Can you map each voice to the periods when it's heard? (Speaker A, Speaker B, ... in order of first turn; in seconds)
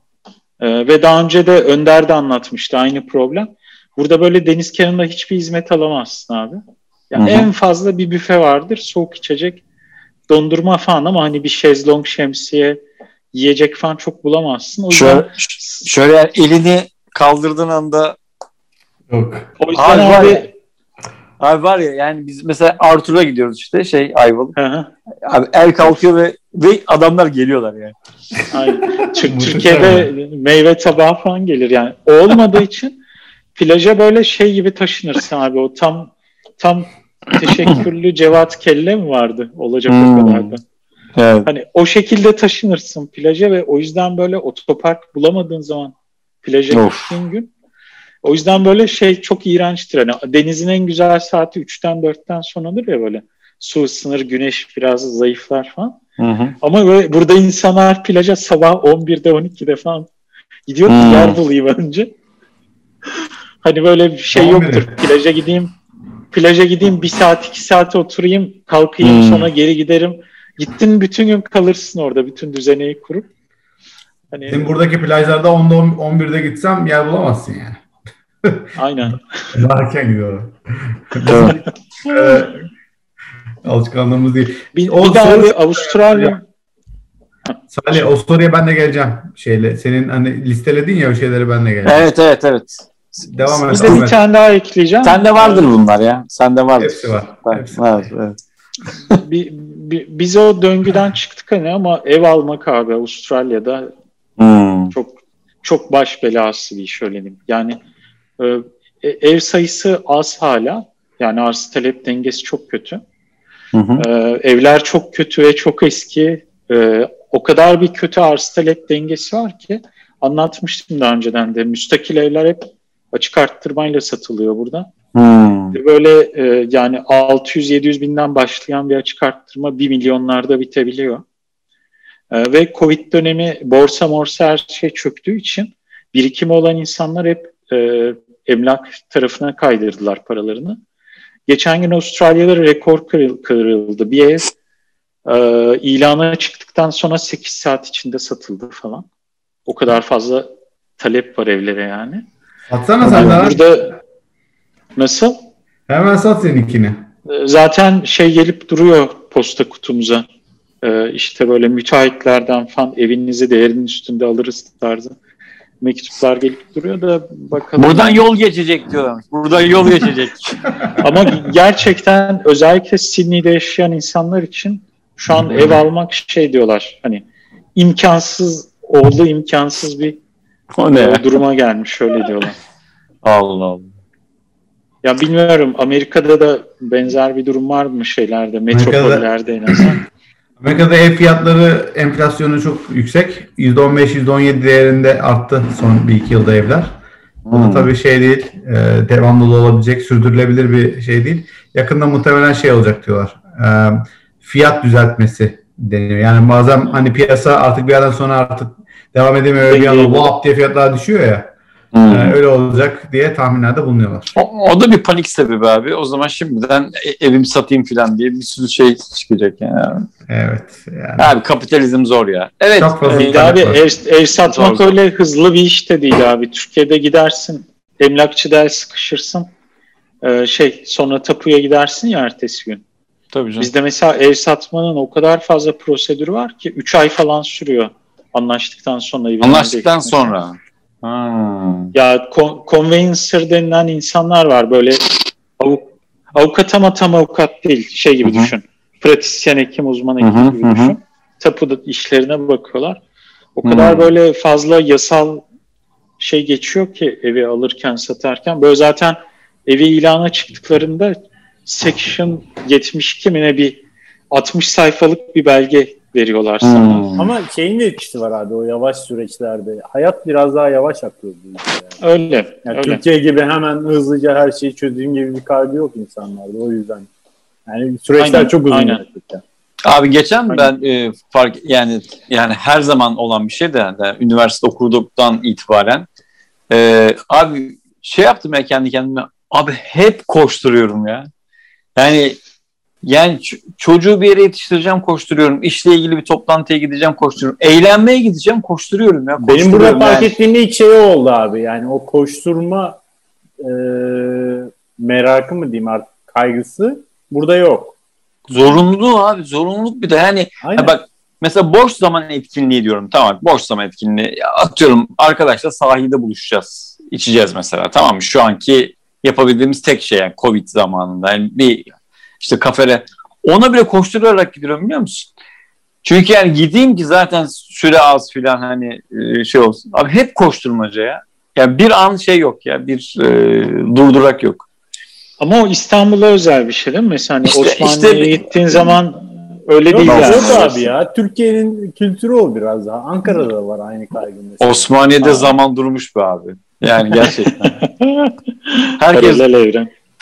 Speaker A: 0.6-9.6, 10.3-12.8, 13.3-15.8, 19.6-20.5, 24.6-24.9, 28.5-33.0, 33.5-40.6, 41.5-47.5, 48.2-56.0, 56.6-60.1, 60.7-62.1, 63.6-65.7, 66.3-73.3, 74.3-74.7, 78.8-79.5, 84.7-86.4, 93.7-95.7, 99.1-103.9, 104.9-107.8, 108.4-113.0, 114.0-124.9, 125.7-131.2, 132.3-140.8, 141.5-144.5, 145.2-149.1, 149.7-152.2, 153.0-154.0, 155.0-155.3, 157.3-160.2, 160.8-165.1, 165.8-168.2, 171.0-180.2, 180.9-182.6, 185.0-190.0, 209.6-210.3, 223.1-229.5, 230.2-232.8, 233.6-240.3, 241.9-245.1, 245.6-253.0, 253.6-255.4, 256.2-267.1, 272.0-273.0, 278.2-279.0, 335.4-340.9, 345.2-345.6, 347.5-349.9
Speaker B: 7.2-7.5, 14.9-18.1, 19.8-20.5, 21.4-24.6, 25.2-27.9, 39.9-40.5, 41.2-41.5, 46.7-47.1, 56.2-56.5, 60.9-61.4, 69.0-69.5, 81.3-81.6, 91.8-94.0, 95.0-98.4, 104.4-104.9, 113.7-114.0, 125.1-125.8, 167.8-170.7, 180.8-181.2, 183.2-183.9, 197.5-197.9, 211.9-212.4, 214.3-220.1, 221.2-223.6, 224.5-224.9, 233.3-233.7, 239.4-241.9, 248.2-248.5, 250.2-250.9, 253.6-254.1, 266.6-267.3, 279.8-286.1, 286.7-291.3, 291.9-292.4, 293.0-300.4, 308.5-325.3, 326.0-334.6, 337.4-338.9, 340.1-340.6, 344.6-347.8, 349.0-349.4
Speaker C: 19.1-19.5, 29.3-30.1, 64.3-64.9, 74.5-77.8, 78.4-78.7, 79.5-82.6, 83.6-86.3, 87.7-92.1, 93.3-94.2, 96.8-98.0, 152.7-153.6, 155.9-157.1, 188.7-189.2, 190.6-197.0, 197.5-211.5, 212.1-214.3, 220.3-221.3, 222.7-223.9
Speaker D: 267.2-272.0, 272.6-277.1, 277.6-279.4, 299.4-303.0, 303.6-307.9, 310.6-310.9, 339.9-344.9